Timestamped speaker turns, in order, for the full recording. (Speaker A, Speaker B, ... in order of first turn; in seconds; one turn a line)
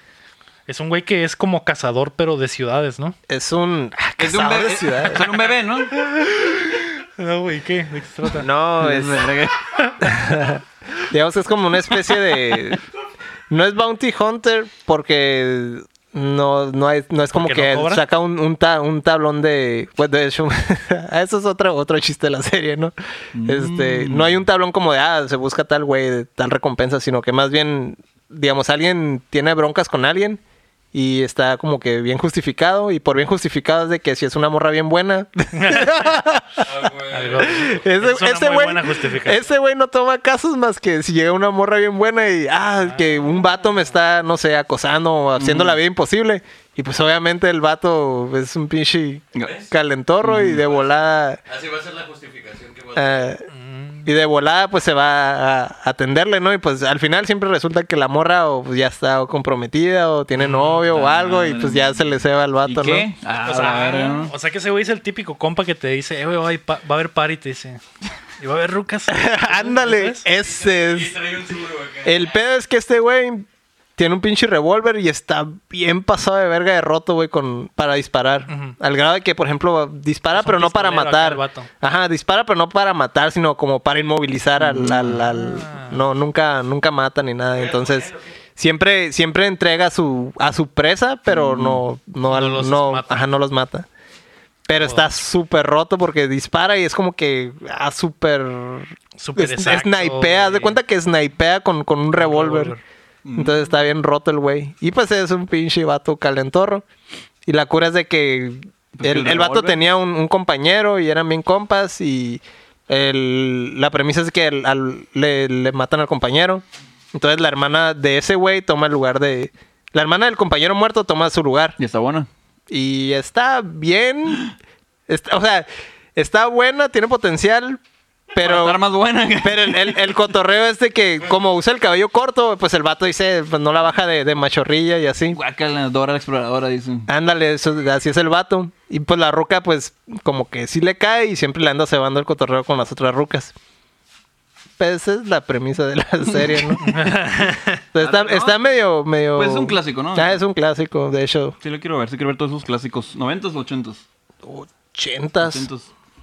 Speaker A: 0.7-3.1
Speaker B: 3.3-5.3
Speaker C: 4.2-5.9
Speaker A: 6.0-8.5
Speaker B: 8.4-9.3
Speaker C: 8.8-9.8
Speaker A: 9.7-10.1
Speaker B: 10.0-12.8
Speaker B: 13.5-30.4
Speaker A: 17.3-18.0
Speaker C: 23.3-24.4
Speaker B: 30.9-36.7
Speaker A: 35.5-36.2
Speaker D: 36.6-37.8
Speaker A: 37.1-39.5
Speaker B: 37.5-51.4
Speaker A: 42.8-43.8
Speaker C: 45.4-45.8
Speaker D: 49.3-49.7
Speaker C: 50.2-50.6
Speaker D: 50.5-53.3
Speaker B: 53.0-53.5
Speaker A: 53.5-54.1
Speaker B: 54.0-63.1
Speaker A: 60.4-60.8
Speaker C: 60.5-62.0
Speaker C: 62.6-64.3
Speaker A: 63.4-67.8
Speaker A: 68.4-70.3
Speaker B: 69.1-71.2
Speaker D: 70.4-72.4
Speaker B: 72.0-93.9
Speaker A: 78.5-78.8
Speaker A: 80.3-81.7
Speaker C: 84.6-85.2
Speaker A: 84.8-86.1
Speaker D: 87.5-88.4
Speaker C: 91.3-91.8
Speaker A: 92.3-93.3
Speaker B: 94.7-102.7
Speaker A: 94.7-95.1
Speaker A: 99.2-100.8
Speaker A: 102.2-102.8
Speaker C: 103.2-103.7
Speaker B: 103.3-106.8
Speaker B: 107.5-121.8
Speaker C: 108.9-109.9
Speaker C: 121.8-122.3
Speaker B: 122.7-124.5
Speaker B: 125.1-127.8
Speaker B: 128.3-128.8
Speaker C: 128.4-130.2
Speaker B: 129.4-135.4
Speaker C: 135.3-137.1
Speaker B: 137.1-143.5
Speaker B: 144.8-146.9
Speaker C: 146.3-147.1
Speaker A: 146.8-147.8
Speaker B: 147.9-151.6
Speaker C: 147.9-148.8
Speaker C: 149.3-150.4
Speaker C: 151.6-154.0
Speaker B: 154.4-155.7
Speaker C: 155.4-155.9